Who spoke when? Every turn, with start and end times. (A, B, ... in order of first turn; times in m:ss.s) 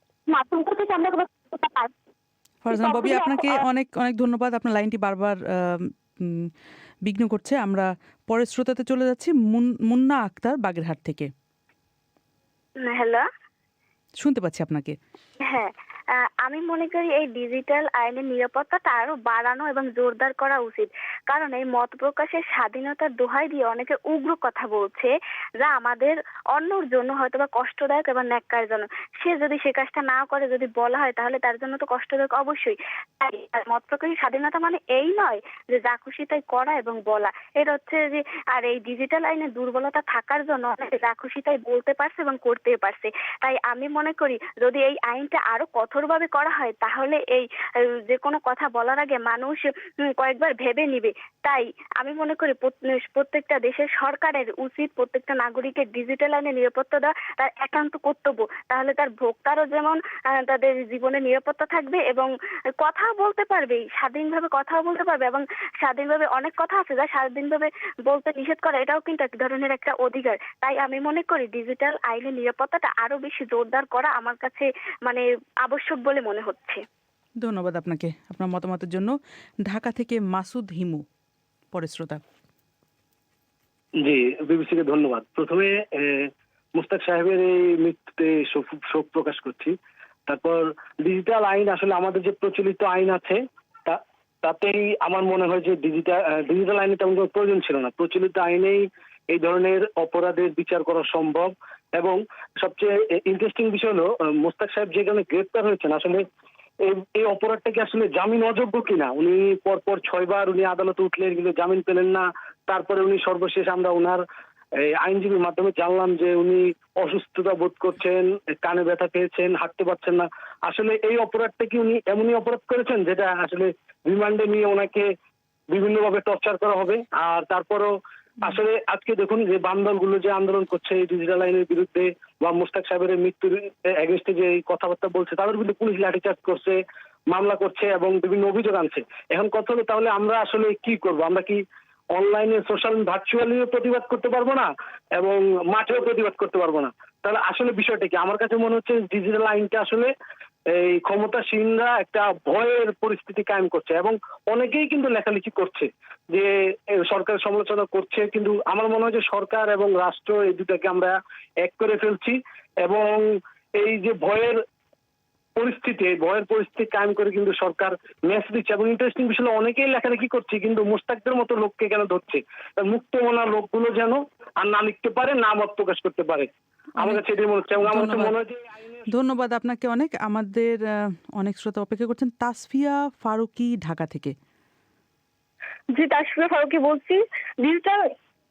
0:00.3-0:01.9 A
0:02.6-0:06.5 B
0:02.7-0:03.6 A
0:07.0-0:11.3 B
0:12.8-0:13.2 C
0:14.2-0:15.0 B
0:15.4-0:15.7 C
0:16.4-0:47.4 C
0:48.1-0:49.6 C
0:50.2-1:16.8 C
1:17.4-1:19.1 B
1:19.6-1:21.0 B
1:21.7-1:22.2 B
1:24.0-1:29.8 D
1:30.3-1:46.2 D
1:46.8-1:54.2 D
1:55.0-2:05.1 D
2:05.7-2:07.9 D
2:08.4-2:16.8 D
2:17.3-2:21.6 D
2:22.1-2:30.1 D
2:30.7-2:36.5 D
2:37.0-2:44.6 D
2:45.6-2:56.5 D
2:57.0-2:57.2 B
2:57.0-2:59.1 D
2:57.8-2:58.4 B
2:59.1-3:04.3 B
3:05.9-3:08.1 E